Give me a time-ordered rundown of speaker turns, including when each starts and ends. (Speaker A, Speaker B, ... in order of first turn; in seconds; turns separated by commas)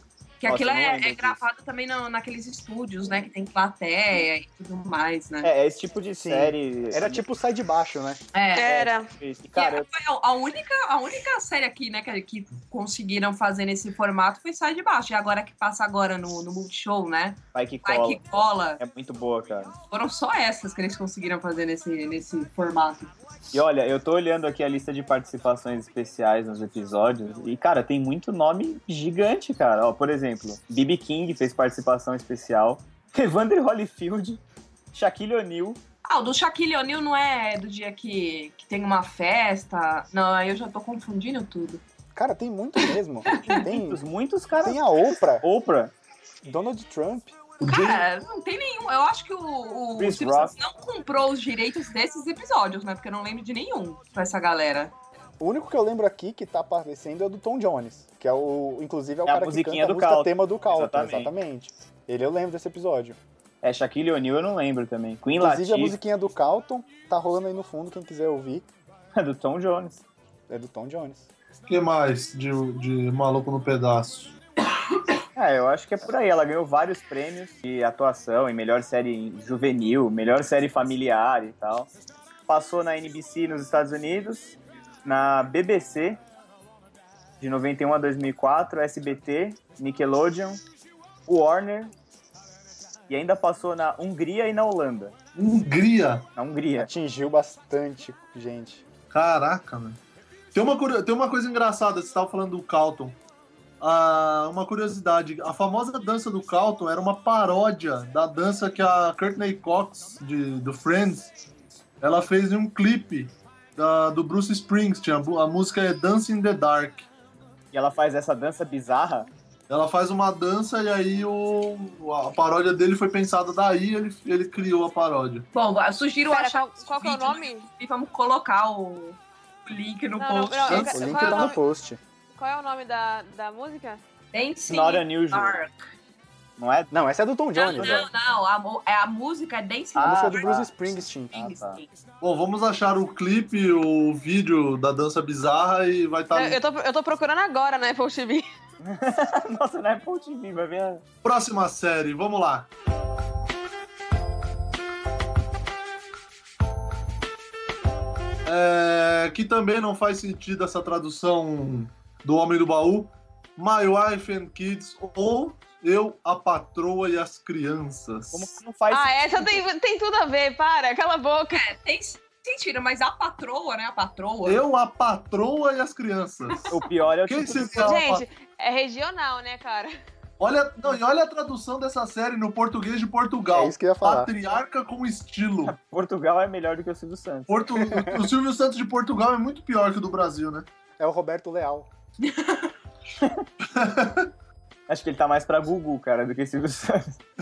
Speaker A: 0.4-5.5, Speaker B: 0.4-1.4, Speaker B: 5.4-7.2, Speaker C: 6.2-8.2, Speaker A: 8.3-8.9, Speaker D: 8.6-9.1, Speaker B: 8.7-9.9, Speaker A: 9.5-18.8, Speaker B: 17.5-19.7, Speaker A: 19.9-23.1, Speaker B: 23.5-34.4, Speaker B: 34.9-35.8, Speaker A: 36.0-41.8, Speaker C: 42.1-44.0, Speaker A: 43.3-43.6, Speaker B: 43.5-45.9, Speaker C: 44.6-45.4, Speaker C: 46.4-47.3, Speaker E: 47.6-48.0, Speaker A: 47.6-54.9, Speaker B: 50.0-50.5, Speaker C: 55.4-63.2, Speaker B: 59.2-61.3, Speaker B: 63.6-66.0, Speaker C: 65.4-68.7, Speaker B: 69.1-70.0, Speaker C: 70.5-71.3, Speaker E: 71.7-74.4, Speaker B: 75.3-81.9, Speaker B: 82.5-86.2, Speaker B: 87.4-90.6, Speaker B: 91.3-91.9, Speaker B: 93.1-95.1, Speaker E: 95.3-96.3, Speaker B: 96.3-96.9, Speaker C: 96.8-98.8, Speaker E: 99.1-100.0, Speaker E: 100.5-103.2, Speaker E: 103.8-111.3, Speaker E: 112.0-117.1, Speaker B: 117.7-119.3, Speaker E: 119.7-125.5, Speaker A: 125.5-131.5, Speaker D: 126.3-127.7, Speaker D: 130.2-131.6, Speaker E: 130.7-131.5, Speaker C: 130.9-132.0, Speaker D: 132.3-134.0, Speaker A: 134.3-135.8, Speaker B: 134.7-135.6, Speaker B: 136.6-136.9, Speaker C: 136.9-138.1, Speaker A: 137.6-140.5, Speaker B: 139.9-140.7, Speaker C: 140.0-141.5, Speaker B: 141.3-141.8, Speaker A: 141.3-141.9, Speaker E: 142.2-146.6, Speaker D: 146.3-148.4, Speaker B: 148.8-151.0, Speaker E: 151.2-152.7, Speaker E: 158.4-168.5, Speaker B: 168.3-169.6, Speaker D: 168.9-171.6, Speaker A: 171.5-174.6, Speaker E: 174.4-176.7, Speaker B: 176.7-178.0, Speaker E: 177.3-178.2, Speaker D: 177.8-179.9, Speaker E: 180.4-185.7, Speaker C: 183.5-184.3, Speaker B: 185.7-187.7, Speaker E: 187.5-190.7, Speaker C: 187.9-188.3, Speaker C: 191.0-191.9, Speaker A: 192.2-192.7, Speaker E: 193.6-194.3, Speaker B: 194.9-197.2